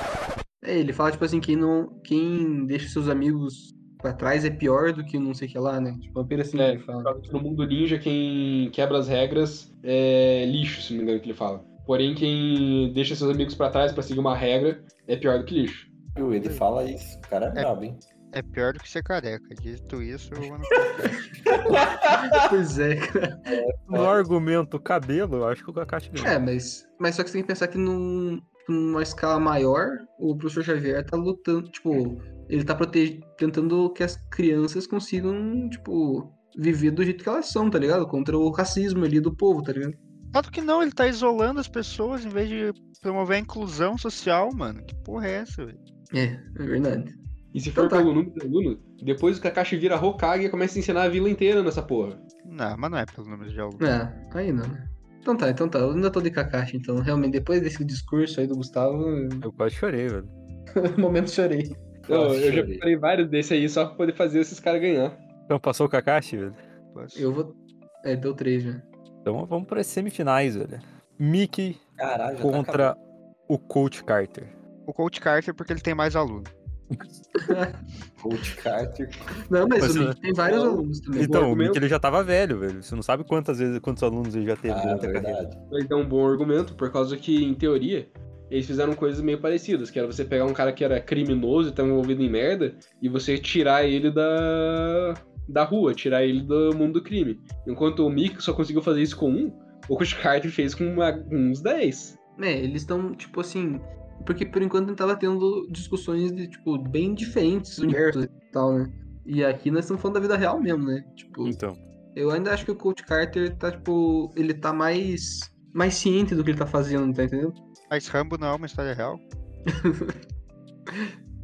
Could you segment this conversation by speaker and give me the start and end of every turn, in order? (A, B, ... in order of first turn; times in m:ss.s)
0:00.6-0:07.1 A
0:06.6-0:15.9 B
0:16.2-0:18.0 C
0:18.3-0:21.3 D
0:21.5-0:22.4 C
0:22.1-0:23.6 A
0:23.5-0:24.2 C
0:23.9-0:26.4 E
0:26.2-0:40.0 A
0:40.3-0:45.8 D
0:46.1-0:47.2 A
0:47.5-0:52.2 B
0:47.8-0:48.1 A
0:52.5-0:53.9 D
0:53.8-0:59.5 A
0:59.4-1:00.3 E
1:00.8-1:01.8 A
1:02.1-1:02.9 C
1:02.1-1:05.2 B
1:05.5-1:06.6 E
1:06.9-1:07.3 D
1:07.2-1:08.8 A
1:09.2-1:11.8 E
1:12.0-1:12.9 C
1:12.4-1:14.5 E
1:14.9-1:16.5 D
1:17.4-1:17.8 A
1:18.2-1:19.4 C
1:19.4-1:21.5 A
1:19.8-1:20.2 E
1:20.4-1:21.8 B
1:21.2-1:25.4 E
1:24.7-1:25.6 C
1:25.7-1:42.2 B
1:42.4-1:51.6 A
1:51.4-1:51.8 E
1:52.2-1:57.6 A
1:57.9-1:59.2 D
1:59.7-2:00.2 A